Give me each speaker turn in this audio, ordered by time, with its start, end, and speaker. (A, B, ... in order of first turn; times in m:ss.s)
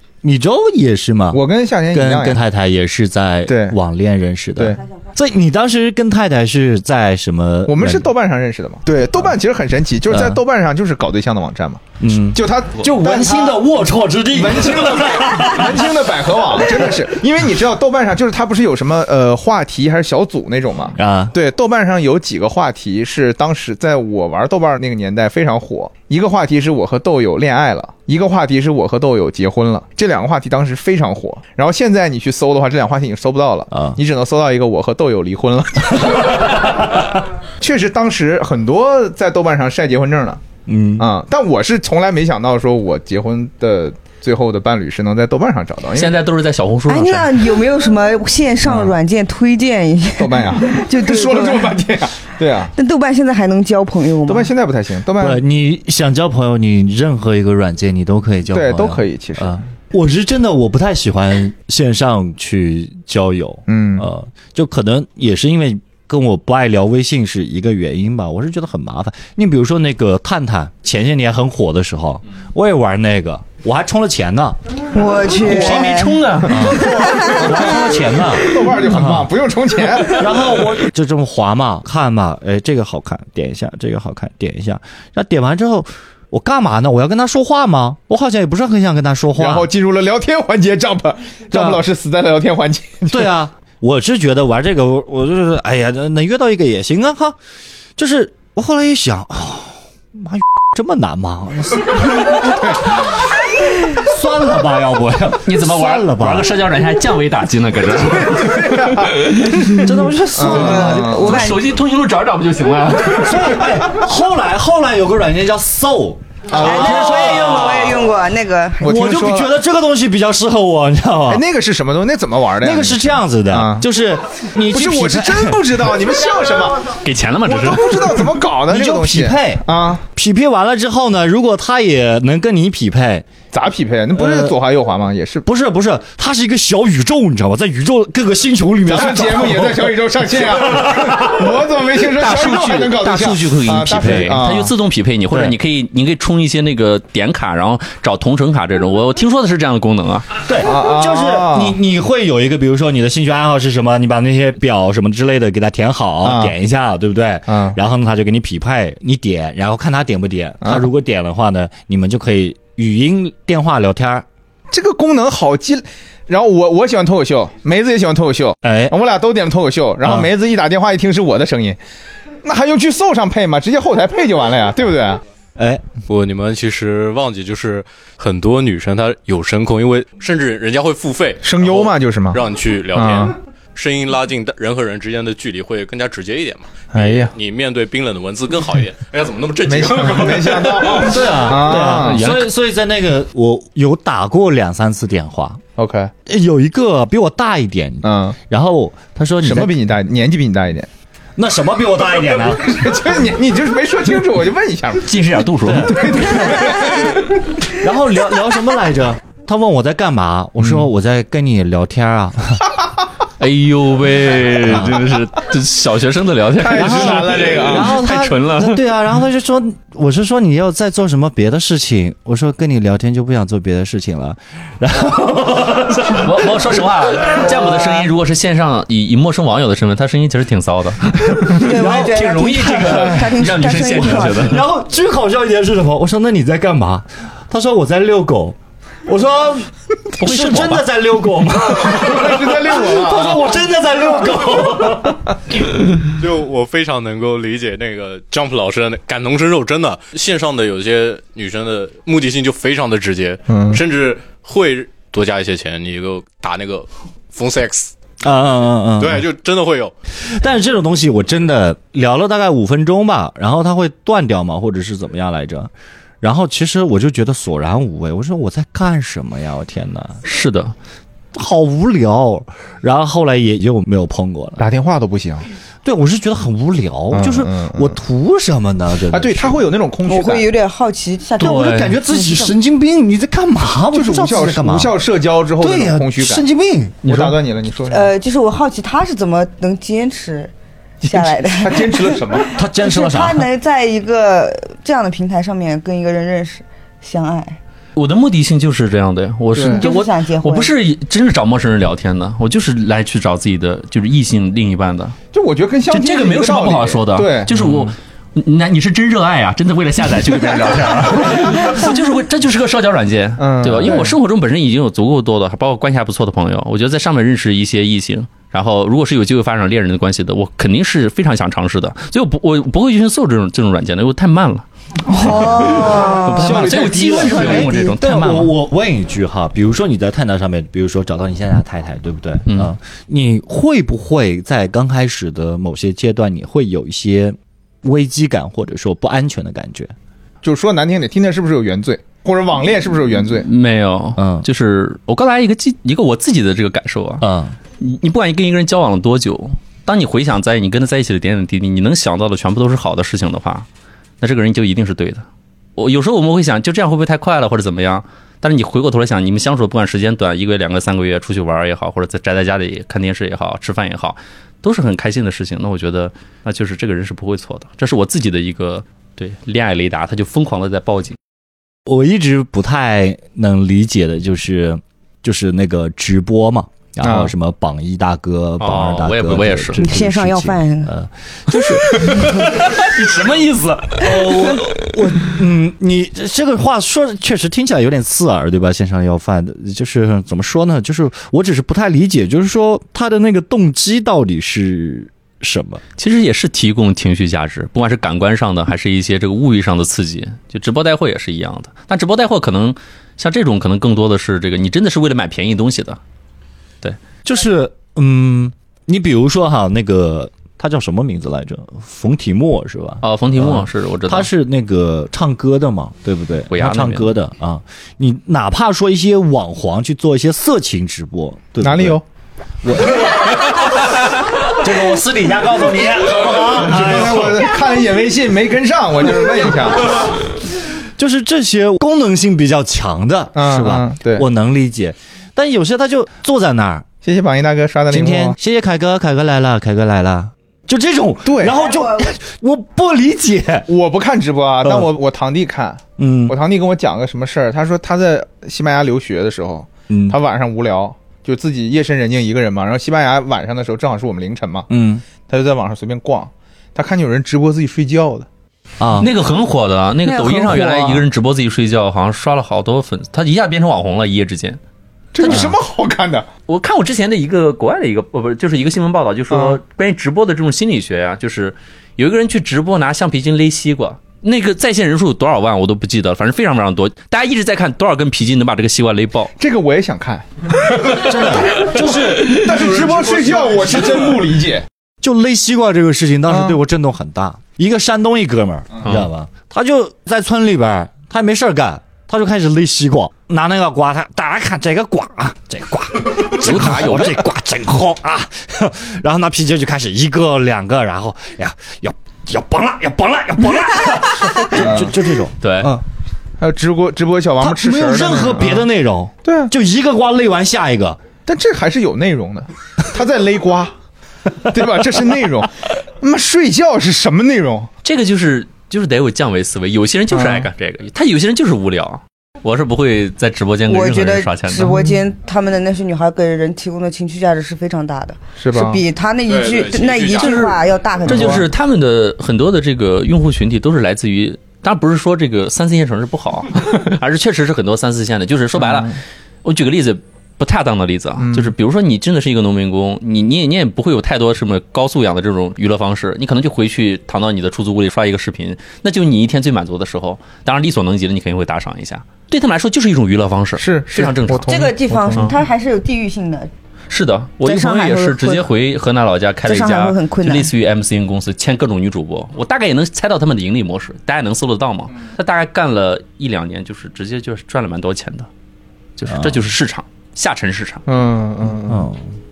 0:00.2-0:08.1 A
0:01.3-0:02.4 B
0:03.5-0:03.8 B
0:04.6-0:04.8 B
0:07.7-0:13.6 B
0:10.1-0:10.4 A
0:12.0-0:16.0 A
0:14.3-0:40.4 B
0:16.6-0:17.0 A
0:21.0-0:21.4 A
0:33.7-0:34.0 A
0:40.7-0:41.1 A
0:41.0-0:46.2 B
0:45.9-0:47.6 C
0:46.9-0:51.8 D
0:48.6-0:49.0 B
0:50.2-0:52.7 B
0:52.8-0:54.5 D
0:54.3-0:55.4 B
0:55.2-1:19.3 A
0:58.5-0:59.6 B
1:03.7-1:04.1 B
1:14.9-1:16.2 D
1:15.4-1:17.0 C
1:16.5-1:16.8 B
1:16.8-1:17.5 D
1:17.5-1:20.5 B
1:20.0-1:29.7 A
1:29.4-1:33.3 B
1:31.5-1:31.8 A
1:33.1-1:37.4 A
1:38.0-1:46.6 A
1:45.4-1:49.8 C
1:48.3-1:49.8 B
1:49.7-1:51.4 A
1:50.4-1:51.5 B
1:50.4-1:51.6 D
1:50.7-1:53.8 C
1:53.2-1:58.0 A
1:56.5-1:58.0 B
1:56.5-1:59.0 D
1:58.8-1:59.5 B
1:58.8-2:01.4 A
2:01.3-2:03.9 B
2:02.6-2:05.9 A
2:04.6-2:10.0 B
2:07.0-2:08.2 C
2:08.7-2:13.3 A
2:13.5-2:15.4 B
2:14.2-2:14.6 A
2:15.4-2:20.0 A
2:18.9-2:24.7 B
2:20.5-2:21.3 A
2:22.2-2:30.3 C
2:25.3-2:25.6 A
2:30.4-2:44.3 A
2:30.6-2:31.8 B
2:36.2-2:36.5 B
2:37.5-2:37.8 B
2:40.6-2:40.9 B
2:44.7-2:51.8 B
2:48.6-2:49.0 A
2:50.0-2:50.3 A
2:52.4-2:55.2 B
2:55.6-2:55.9 A
2:56.1-3:11.2 E
3:01.4-3:03.3 B
3:06.9-3:07.3 B
3:09.6-3:12.3 B
3:10.8-3:15.6 A
3:11.8-3:12.5 C
3:15.8-3:16.1 B
3:16.3-3:19.8 A
3:18.0-3:18.4 B
3:19.4-3:20.9 B
3:21.4-3:23.0 A
3:22.6-3:27.3 B
3:25.0-3:26.0 C
3:25.6-3:32.7 A
3:33.4-3:38.8 C
3:34.7-3:35.0 A
3:36.6-3:38.0 B
3:36.7-3:46.7 A
3:46.0-3:54.6 C
3:51.5-4:05.3 A
3:51.5-3:54.6 D
4:00.2-4:00.9 C
4:01.8-4:03.5 B
4:06.1-4:18.0 E
4:13.5-4:13.8 B
4:18.2-4:19.3 A
4:19.0-4:19.9 E
4:20.2-4:30.2 A
4:30.2-4:30.7 C
4:31.3-4:34.7 A
4:34.6-4:35.4 B
4:35.8-4:39.6 A
4:37.1-4:38.0 B
4:39.1-4:40.5 B
4:40.1-4:42.6 D
4:41.4-4:42.0 C
4:41.4-4:45.0 A
4:43.9-4:46.4 B
4:45.6-4:47.3 A
4:47.0-4:48.1 B
4:47.9-4:57.6 D
4:51.1-4:52.5 B
4:52.5-4:53.5 A
4:58.0-5:05.2 C
4:59.5-4:59.9 B
4:59.7-5:00.7 D
5:05.3-5:07.9 B
5:05.9-5:24.6 C
5:13.4-5:14.2 B
5:25.1-5:26.6 D
5:25.1-5:27.7 B
5:25.2-5:28.5 C
5:26.4-5:39.9 A
5:32.5-5:32.7 C
5:40.4-5:43.5 B
5:43.4-5:47.2 C
5:44.2-5:44.5 A
5:47.2-5:47.6 A
5:47.8-5:53.7 C
5:54.2-5:55.2 C
5:55.8-6:11.2 C
6:11.9-6:22.8 A
6:17.0-6:17.3 B
6:18.6-6:19.8 C
6:19.8-6:20.9 D
6:22.0-6:24.6 C
6:24.0-6:35.8 A
6:36.0-6:46.0 C
6:47.2-7:02.0 A
6:53.0-6:54.3 C
6:56.5-6:57.1 C
7:01.6-7:02.0 B
7:02.6-7:07.5 A
7:06.6-7:10.1 B
7:11.0-7:16.9 A
7:13.4-7:14.2 B
7:17.0-7:18.4 B
7:17.9-7:23.7 A
7:21.2-7:21.6 B
7:21.5-7:22.1 D
7:23.7-7:34.7 B
7:26.0-7:26.4 A
7:29.9-7:30.2 A
7:34.7-7:35.0 A
7:35.2-7:38.3 B
7:38.8-7:39.1 A
7:39.0-7:44.6 C
7:40.4-7:41.0 A
7:45.1-7:46.3 B
7:45.2-7:45.5 C
7:45.2-7:45.6 A
7:46.5-7:59.4 C
7:49.3-7:49.6 B
7:59.4-8:04.7 B
8:00.9-8:02.8 A
8:03.0-8:03.7 E
8:05.0-8:25.8 A
8:06.3-8:06.6 B
8:08.8-8:09.1 C
8:16.2-8:17.2 C
8:24.4-8:25.0 B
8:25.4-8:25.7 C
8:26.4-8:28.7 B
8:27.4-8:31.0 A
8:29.2-8:29.5 B
8:31.3-8:33.7 B
8:34.4-8:37.7 B
8:37.8-8:44.8 C
8:40.1-8:40.5 B
8:43.7-8:51.5 D
8:48.4-8:48.8 B
8:49.2-8:50.4 E
8:50.2-9:15.4 C
8:51.1-8:51.5 B
8:58.6-8:59.0 B
9:01.2-9:01.5 B
9:13.6-9:15.3 B
9:14.5-9:16.5 D
9:16.9-9:28.3 C
9:17.4-9:18.5 D
9:19.5-9:20.5 D
9:29.0-9:30.8 C
9:29.1-9:29.4 A
9:30.9-9:31.9 B
9:31.7-9:32.0 A